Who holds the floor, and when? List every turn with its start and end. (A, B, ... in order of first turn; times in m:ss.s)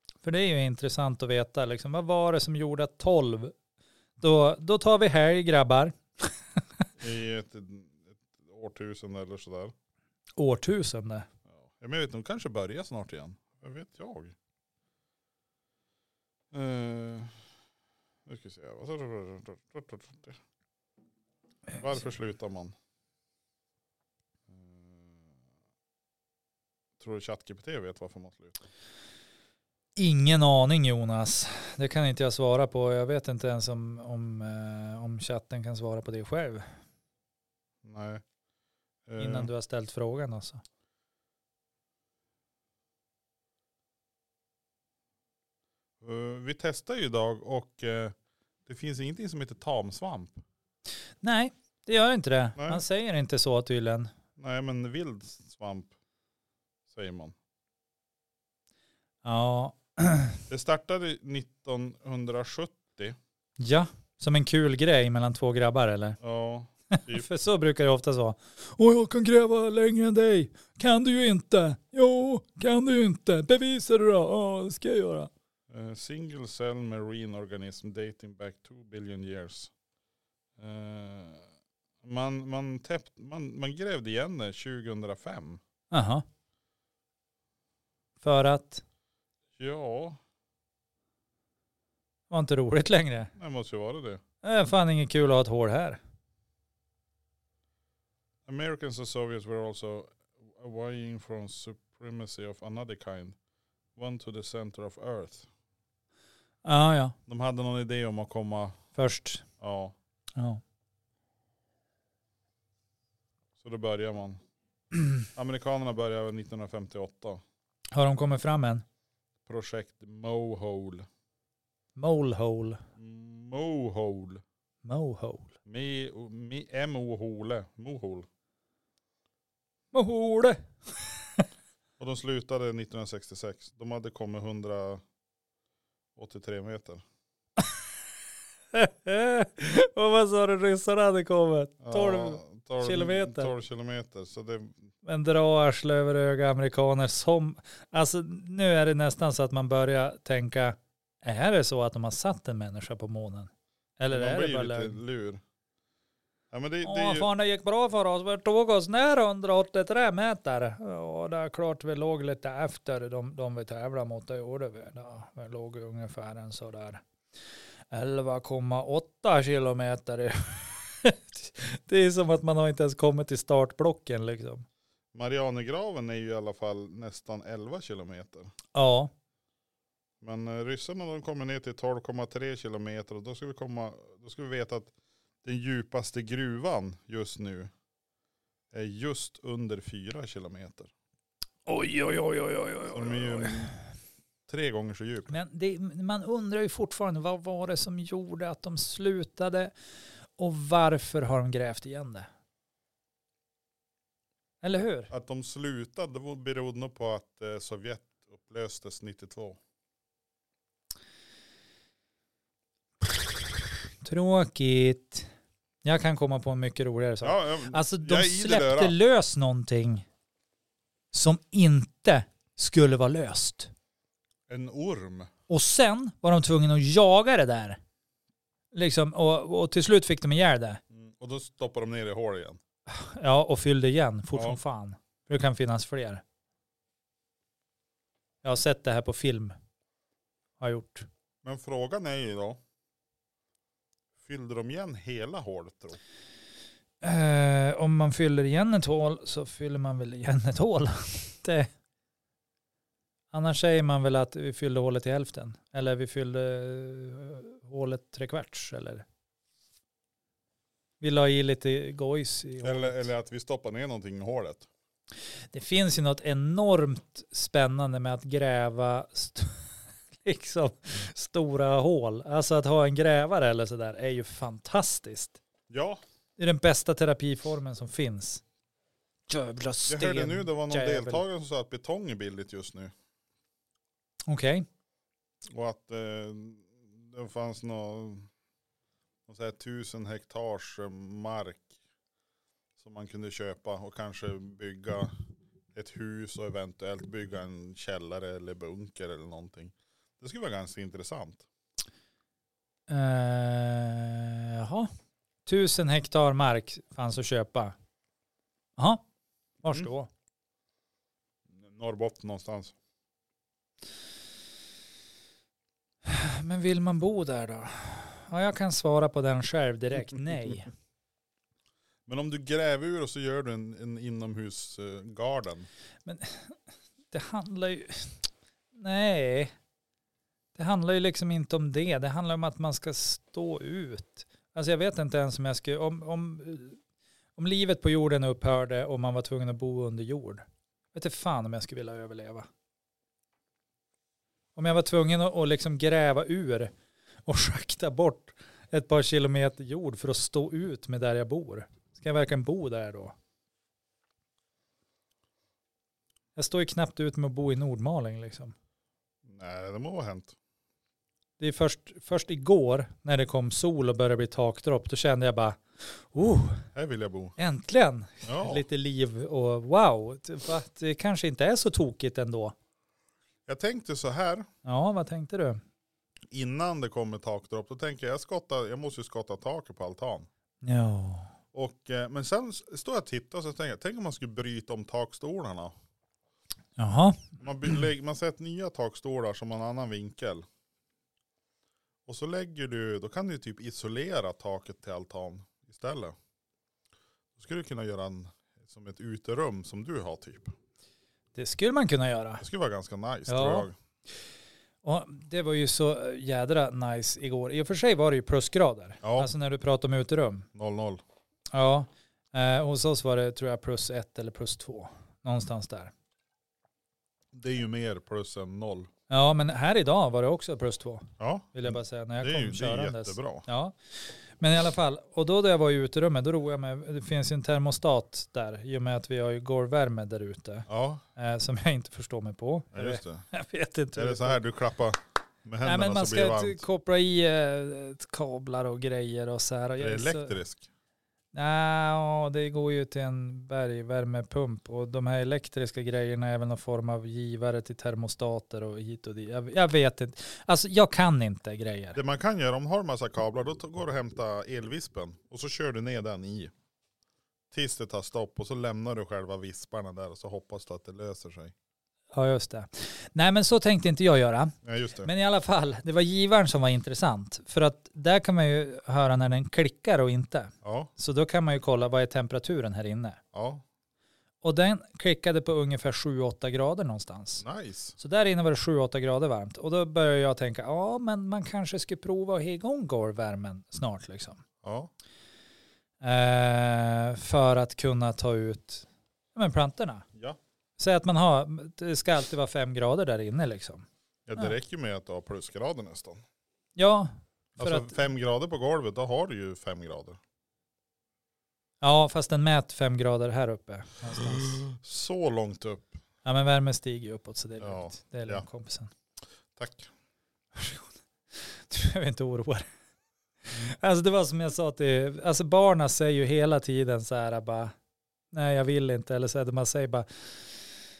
0:00.2-0:03.5 A
0:04.2-0:06.3 A
0:07.0-0:09.7 B
0:10.4-0:11.3 A
0:11.5-0:14.3 B
0:16.5-0:17.4 B
0:18.2-0:20.4 B
0:21.7-0:22.7 B
0:24.5-0:25.2 B
0:27.0-0:28.6 B
0:30.0-0:36.7 A
0:37.8-0:38.2 B
0:39.1-0:39.5 B
0:39.2-0:40.6 A
0:46.0-0:48.1 B
0:48.6-0:50.4 B
0:51.2-0:54.1 A
0:52.6-0:52.8 B
0:54.4-0:55.9 B
0:56.9-0:57.3 B
0:59.2-1:00.4 A
1:00.5-1:03.2 B
1:03.6-1:06.2 A
1:06.2-1:07.2 B
1:06.9-1:15.3 A
1:15.7-1:19.7 B
1:20.6-1:21.4 B
1:22.0-1:25.6 B
1:25.9-1:26.2 A
1:28.2-1:28.8 A
1:29.6-1:30.2 B
1:32.3-1:33.3 A
1:33.4-1:34.2 B
1:34.4-1:36.0 A
1:38.4-1:43.4 B
1:44.0-1:45.5 B
1:46.6-1:47.1 A
1:47.3-1:48.8 B
1:48.9-1:49.4 A
1:49.6-1:49.9 B
1:50.4-1:50.6 A
1:53.6-1:54.4 B
1:55.3-1:57.4 B
1:57.9-1:58.8 A
1:59.4-2:01.1 B
2:02.0-2:02.8 A
2:03.0-2:04.4 B
2:04.8-2:05.5 A
2:05.6-2:08.3 B
2:09.9-2:11.4 A
2:12.0-2:15.0 B
2:16.2-2:17.0 B
2:18.7-2:23.5 A
2:21.8-2:24.8 B
2:25.0-2:35.0 A
2:34.1-2:35.4 B
2:36.5-2:37.3 B
2:36.8-2:47.0 A
2:47.9-2:54.6 A
2:55.1-2:58.5 B
2:58.7-2:59.1 A
3:00.2-3:04.9 B
3:05.4-3:07.7 B
3:08.7-3:10.9 B
3:11.6-3:13.8 A
3:12.9-3:13.7 B
3:14.5-3:15.3 B
3:15.3-3:19.7 A
3:20.4-3:22.3 A
3:24.6-3:25.1 A
3:25.1-3:29.6 B
3:34.0-3:35.3 A
3:35.8-3:40.0 A
3:37.2-3:39.0 B
3:41.1-3:43.7 A
3:44.5-3:45.3 B
3:45.5-3:47.8 A
3:48.7-3:50.8 A
3:50.9-3:52.6 B
3:52.9-3:56.2 A
3:58.4-3:59.5 A
4:00.6-4:01.1 A
4:01.4-4:02.6 B
4:04.2-4:06.0 B
4:07.0-4:11.7 A
4:13.3-4:19.0 A
4:21.0-4:23.1 A
4:22.6-4:24.7 B
4:25.5-4:29.6 A
4:30.2-4:35.4 A
4:35.7-4:36.0 B
4:36.4-4:38.4 A
4:39.3-4:41.2 A
4:39.9-4:42.9 B
4:44.3-4:44.6 A
4:45.5-4:48.3 B
4:49.3-4:51.7 B
4:52.8-4:55.1 B
4:55.7-5:01.4 B
5:02.9-5:04.9 A
5:05.4-5:07.7 A
5:08.8-5:09.0 A
5:09.6-5:10.1 A
5:11.5-5:12.7 B
5:16.0-5:20.7 A
5:22.1-5:25.7 B
5:26.0-5:26.6 A
5:27.1-5:28.2 A
5:28.7-5:29.5 A
5:30.5-5:36.8 A
5:37.4-5:42.5 A
5:44.6-5:46.7 A
5:47.2-5:53.1 A
5:56.4-5:58.5 A
5:59.2-6:00.3 B
6:01.4-6:06.6 A
6:06.7-6:07.3 B
6:07.4-6:12.5 A
6:08.2-6:08.6 B
6:13.5-6:14.5 B
6:14.6-6:15.6 A
6:16.3-6:20.3 B
6:20.6-6:21.3 A
6:21.5-6:25.7 B
6:26.8-6:27.7 A
6:27.4-6:30.4 B
6:32.0-6:36.2 B
6:37.4-6:40.5 B
6:41.3-6:42.4 A
6:42.4-6:43.7 B
6:43.3-6:43.7 A
6:44.8-6:50.4 A
6:49.0-6:49.3 B
6:50.5-6:51.0 B
6:51.5-6:55.9 A
6:57.3-6:58.9 B
6:59.1-7:03.7 A
7:01.2-7:03.4 B
7:04.4-7:14.4 A
7:10.7-7:11.0 B
7:12.7-7:13.2 B
7:13.9-7:16.6 B
7:15.6-7:20.3 A
7:19.8-7:20.6 B
7:21.3-7:32.0 A
7:31.9-7:36.5 B
7:37.5-7:41.5 B
7:42.1-7:53.2 A
7:44.6-7:45.1 B
7:50.6-7:50.9 B
7:53.3-7:53.6 B
7:54.4-7:57.4 A
7:57.4-7:58.0 B
7:58.0-8:04.4 A
8:04.6-8:04.9 B
8:06.0-8:10.0 A
8:10.8-8:13.8 A
8:14.3-8:16.2 B
8:16.8-8:18.0 A
8:17.6-8:20.2 B
8:21.8-8:24.6 A
8:24.2-8:26.0 B
8:26.2-8:28.9 A
8:27.6-8:28.4 B
8:29.6-8:29.9 B
8:30.5-8:32.7 A
8:33.5-8:37.7 A
8:38.3-8:40.6 A